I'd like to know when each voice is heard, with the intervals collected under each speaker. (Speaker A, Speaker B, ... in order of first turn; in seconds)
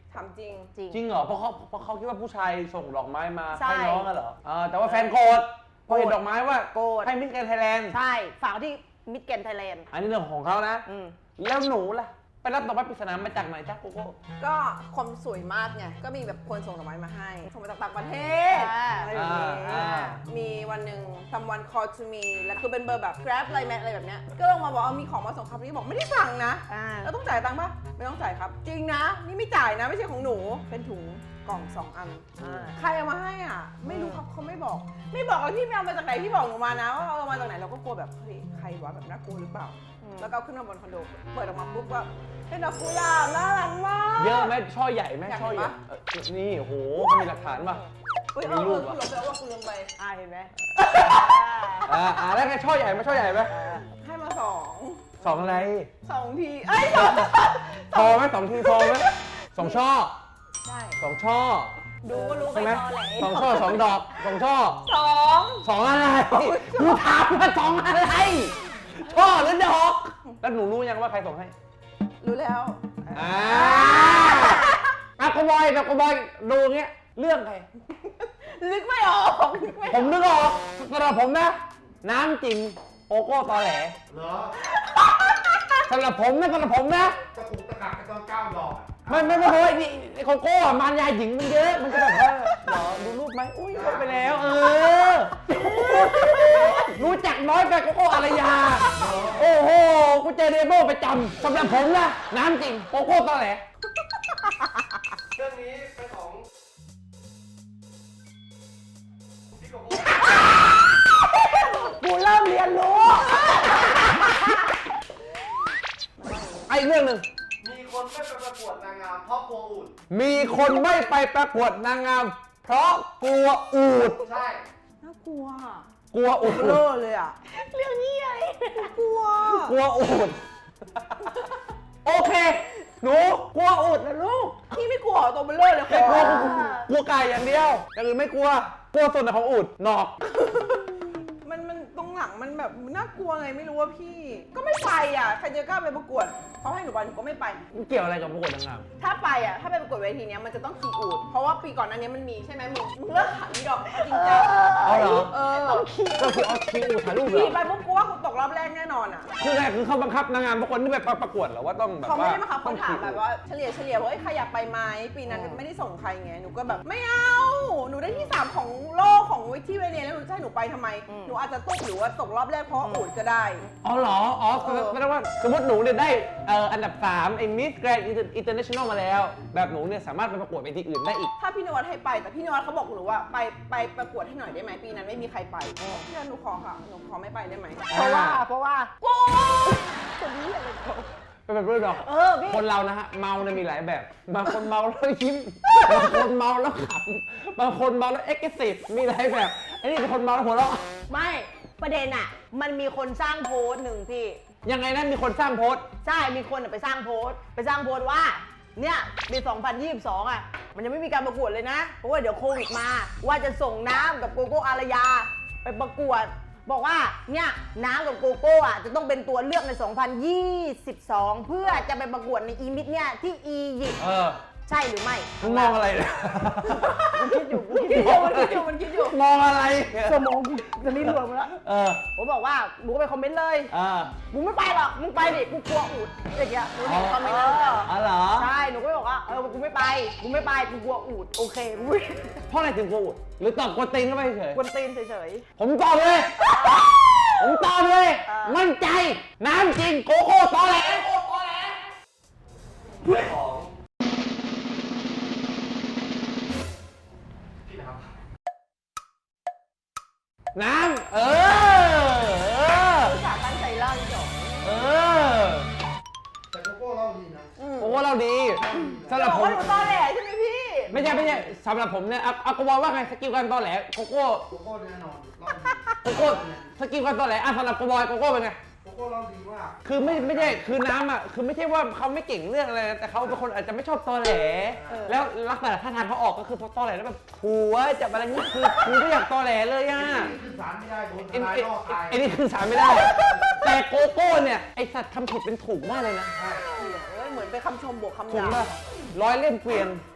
Speaker A: 0.1-0.7, 14.4-44.5, 45.2-45.7, 48.3-49.9, 53.9-59.8, 60.6-61.0, 62.1-62.5, 64.8-65.7, 66.3-67.2, 72.2-74.8, 78.2-80.2, 84.8-85.8, 95.6-96.8, 98.8-99.2, 113.5-113.8, 116.2-116.6, 120.4-120.8, 125.0-125.8, 126.4-127.4, 128.7-129.8, 134.7-136.5, 140.3-147.6, 149.0-154.5, 155.0-155.9, 157.2-159.3, 162.0-173.7, 174.7-174.9, 181.4-187.9, 189.0-189.9, 226.7-227.2, 227.7-229.2, 236.8-237.9, 262.9-264.6, 267.6-267.9, 268.7-271.4, 296.6-298.7
Speaker B: 0.9-8.0, 9.9-10.9, 11.4-14.2, 19.1-20.2, 32.4-32.7, 44.2-47.8, 48.4-49.0, 50.7-53.5, 55.2-55.9, 56.9-57.3, 57.9-60.1, 61.0-61.8, 62.5-64.8, 65.6-71.5, 73.1-77.7, 79.9-84.0, 85.8-87.2, 89.1-103.6, 116.7-117.2, 120.1-124.2, 126.1-126.8, 129.4-130.4, 132.0-134.6, 135.9-140.2, 147.7-148.8, 154.8-155.3, 156.2-157.6, 159.4-163.2, 173.8-181.3, 187.9-188.4, 191.5-200.9, 204.6-205.8, 224.0-224.4, 225.4-232.0, 233.7-234.2, 236.8-237.3, 237.8-238.5, 242.5-244.6, 245.6-246.6, 247.4-251.8, 260.5-263.1, 264.6-265.7, 267.8-269.8, 270.9-274.5, 276.0-278.6, 279.8-290.3, 291.3-296.3, 298.3-300.0
Speaker C: 3.5-4.1, 5.9-6.2, 6.7-7.1, 7.9-9.9, 10.8-11.1, 18.5-19.1, 19.6-20.1, 26.7-27.1, 33.8-34.2, 40.0-40.3, 50.0-52.0, 53.5-53.9, 62.0-63.9, 74.2-74.5, 95.9-96.8, 110.8-114.7, 127.5-128.9, 136.0-136.9, 154.0-156.9, 165.3-165.6, 171.1-171.3, 172.8-173.1, 185.8-186.1, 187.9-188.9, 189.6-191.1, 191.9-192.6, 195.8-196.1, 201.1-204.4, 206.0-224.0, 224.7-225.8, 227.1-228.4, 230.0-231.6, 232.1-233.7, 234.3-242.4, 244.5-245.4, 246.4-246.9, 248.2-248.6
Speaker D: 84.1-84.5, 87.3-89.5, 93.7-94.2, 98.9-99.5, 105.3-106.4, 109.5-110.5, 117.6-119.9, 124.2-124.6, 253.0-253.7, 257.6-258.1, 266.5-267.5, 268.6-269.2, 274.5-276.7, 278.8-280.6, 289.9-292.2, 293.2-293.6, 296.4-296.6